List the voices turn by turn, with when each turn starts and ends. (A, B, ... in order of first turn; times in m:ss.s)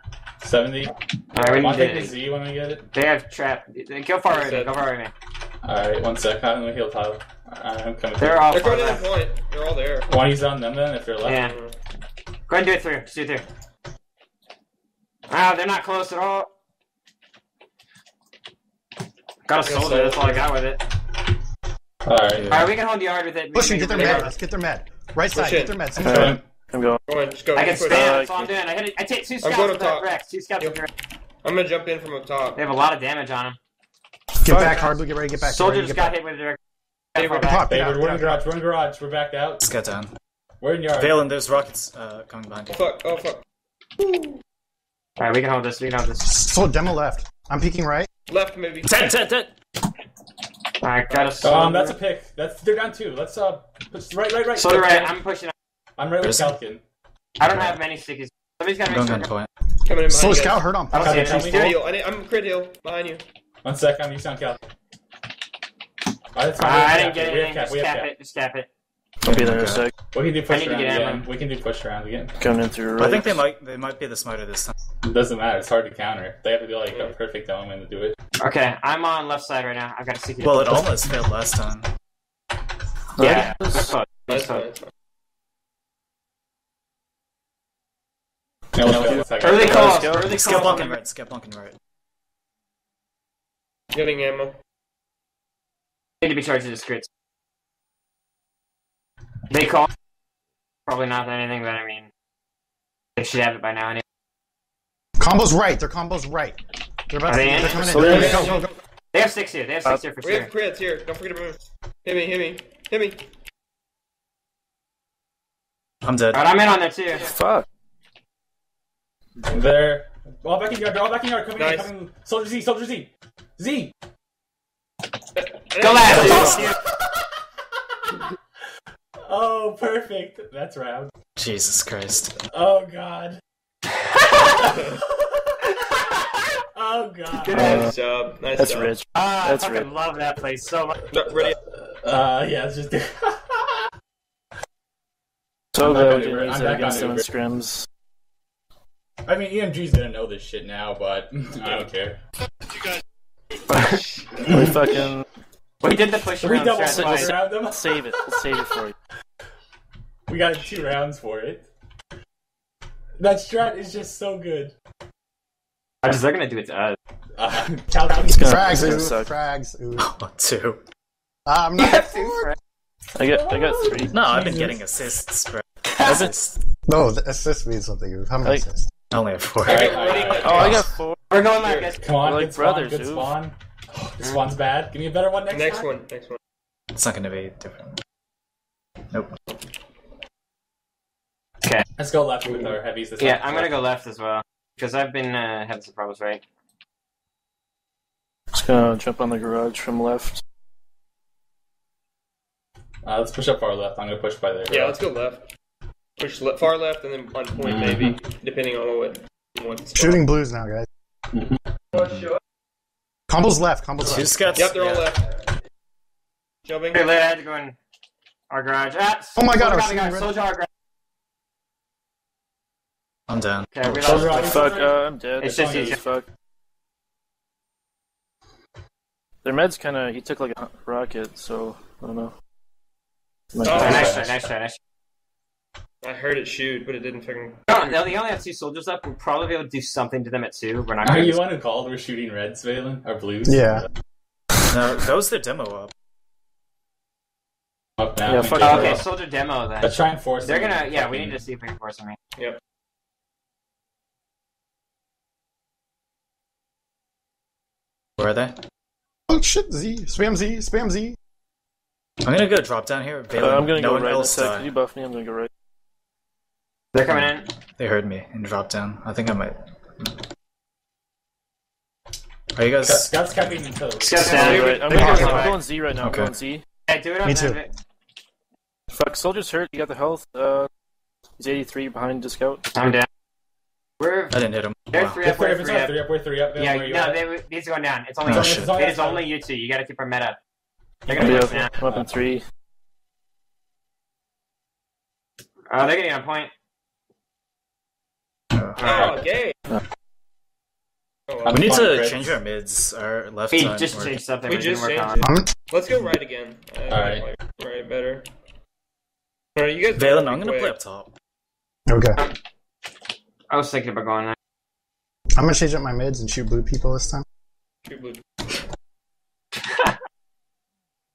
0:00.4-0:02.9 A
0:01.3-0:02.2 B
0:02.9-0:05.1 B
0:04.3-0:04.8 C
0:05.6-0:08.8 A
0:08.2-0:09.1 B
0:08.5-0:10.1 C
0:10.1-0:11.6 A
0:11.2-0:11.6 B
0:11.4-0:11.7 C
0:12.5-0:13.4 B
0:15.3-0:16.5 B
0:19.5-0:20.8 B
0:19.6-0:20.4 A
0:22.1-0:22.7 A
0:22.3-0:22.7 D
0:22.5-0:24.3 B
0:23.5-0:26.4 E
0:25.4-0:25.8 C
0:26.0-0:26.4 A
0:26.0-0:27.0 F
0:27.1-0:28.2 C
0:27.6-0:30.9 B
0:27.8-0:28.5 F
0:29.4-0:30.8 C
0:31.4-0:32.6 C
0:32.6-0:33.6 B
0:34.4-0:36.2 E
0:34.4-0:34.8 F
0:35.4-0:36.6 B
0:37.2-0:37.6 B
0:37.2-0:38.4 E
0:37.7-0:39.6 A
0:39.6-0:40.1 D
0:40.6-0:41.3 A
0:40.9-0:42.8 D
0:42.7-0:43.4 C
0:44.0-0:44.3 C
0:45.2-0:46.3 B
0:46.2-0:48.1 E
0:48.3-0:49.0 C
0:48.8-0:49.5 D
0:50.8-0:51.9 B
0:51.1-0:51.4 C
0:51.4-0:55.1 A
0:54.6-0:55.5 B
0:56.0-0:56.8 A
0:56.2-0:56.6 D
0:57.4-0:59.3 B
0:57.4-0:57.8 D
0:58.9-0:59.5 D
0:59.8-1:03.2 C
1:00.1-1:01.6 E
1:00.9-1:01.8 B
1:01.0-1:01.7 A
1:03.6-1:04.6 A
1:06.3-1:08.1 A
1:06.6-1:08.7 B
1:09.2-1:09.9 F
1:09.3-1:09.9 D
1:10.1-1:12.4 A
1:10.5-1:11.3 B
1:12.4-1:13.4 F
1:13.0-1:14.7 D
1:15.0-1:18.2 A
1:18.4-1:20.9 B
1:20.4-1:21.9 D
1:23.2-1:23.9 F
1:23.2-1:24.6 B
1:24.3-1:24.9 C
1:28.7-1:30.2 A
1:28.8-1:30.7 F
1:29.4-1:30.9 B
1:29.8-1:31.8 D
1:33.9-1:34.5 C
1:36.2-1:37.1 B
1:39.5-1:39.9 B
1:40.9-1:42.1 B
1:43.2-1:44.0 B
1:45.2-1:46.6 E
1:47.1-1:48.7 E
1:47.3-1:48.6 B
1:47.8-1:48.5 F
1:48.0-1:48.4 A
1:48.2-1:48.6 C
1:49.1-1:50.5 B
1:50.2-1:53.2 C
1:56.0-1:56.5 D
1:56.3-1:57.3 B
1:57.2-1:57.7 F
1:59.5-2:03.9 A
2:01.6-2:01.9 C
2:05.4-2:06.6 C
2:05.8-2:06.8 B
2:06.1-2:06.6 D
2:06.2-2:07.2 A
2:09.2-2:11.1 A
2:11.4-2:12.3 D
2:12.4-2:13.4 A
2:14.4-2:17.8 A
2:17.5-2:18.9 C
2:17.5-2:17.8 B
2:17.6-2:17.9 F
2:18.6-2:19.9 F
2:19.1-2:21.0 B
2:21.1-2:21.6 C
2:21.8-2:23.9 A
2:25.7-2:27.9 F
2:25.8-2:27.3 A
2:29.3-2:32.2 A
2:33.7-2:34.0 B
2:34.4-2:35.2 F
2:34.5-2:34.7 A
2:35.8-2:37.3 B
2:36.4-2:38.4 A
2:36.9-2:39.0 F
2:40.3-2:41.7 A
2:43.2-2:44.7 A
2:46.0-2:47.0 B
2:47.4-2:49.0 A
2:48.2-2:49.3 F
2:48.3-2:50.1 E
2:50.0-2:50.8 D
2:51.5-2:52.5 E
2:53.2-2:54.2 F
2:53.3-2:54.8 A
2:54.1-2:56.6 D
2:56.0-2:56.3 F
2:56.9-2:58.9 E
2:59.1-3:00.9 D
2:59.6-3:00.8 A
2:59.7-3:00.7 C
3:00.3-3:01.2 F
3:01.3-3:02.0 B
3:01.5-3:01.9 C
3:02.0-3:05.9 A
3:02.2-3:03.3 F
3:05.5-3:06.4 C
3:06.9-3:08.0 D
3:12.0-3:13.7 A
3:13.2-3:16.4 B
3:18.5-3:20.4 F
3:23.0-3:25.0 A
3:24.7-3:25.5 C
3:26.2-3:30.2 C
3:27.6-3:28.2 A
3:30.0-3:30.9 E
3:31.3-3:31.6 A
3:31.9-3:32.3 D
3:33.3-3:34.5 E
3:34.0-3:35.1 D
3:34.6-3:35.3 C
3:36.7-3:37.0 C
3:36.9-3:37.8 B
3:38.5-3:40.7 B
3:39.4-3:40.4 E
3:43.3-3:44.4 D
3:43.7-3:44.8 B
3:44.0-3:46.0 A
3:44.2-3:46.3 F
3:45.4-3:46.0 B
3:49.4-3:52.3 F
3:53.5-3:54.1 F
3:53.6-3:54.1 C
3:53.6-3:54.4 A
3:53.7-3:54.8 B
3:56.0-3:57.7 C
3:57.7-4:01.4 B
4:01.0-4:03.9 A
4:03.4-4:03.8 E
4:04.7-4:05.9 D
4:08.0-4:09.0 A
4:08.3-4:09.0 F
4:08.6-4:09.9 B
4:09.8-4:11.4 A
4:10.4-4:12.2 B
4:18.2-4:18.6 D
4:19.3-4:21.2 E
4:22.2-4:24.7 D
4:23.4-4:25.5 F
4:26.9-4:27.5 B
4:27.1-4:30.2 D
4:32.6-4:33.2 D
4:32.8-4:34.8 A
4:34.0-4:35.6 B
4:34.3-4:36.6 F
4:34.3-4:35.5 C
4:34.9-4:35.6 E
4:36.0-4:36.3 D
4:36.9-4:37.7 B
4:37.2-4:37.6 E
4:38.9-4:40.7 F
4:41.4-4:42.6 F
4:42.7-4:43.1 B
4:44.0-4:44.3 B
4:44.3-4:45.2 D
4:44.9-4:46.0 B
4:45.2-4:47.2 A
4:46.6-4:50.4 B
4:48.3-4:48.7 D
4:48.3-4:49.2 A
4:51.1-4:51.8 A
4:51.1-4:51.7 B
4:51.2-4:52.4 F
4:55.7-4:56.5 B
4:58.6-4:59.2 D
4:58.8-4:59.1 B
4:58.8-4:59.6 C
5:01.3-5:01.7 C
5:01.4-5:02.4 A
5:01.5-5:04.2 D
5:03.5-5:05.3 B
5:04.5-5:08.3 C
5:05.2-5:05.5 E
5:06.9-5:07.3 A
5:09.6-5:10.7 C
5:10.0-5:11.1 D
5:11.9-5:12.2 E
5:13.5-5:14.4 B
5:15.4-5:17.2 E
5:17.9-5:18.2 C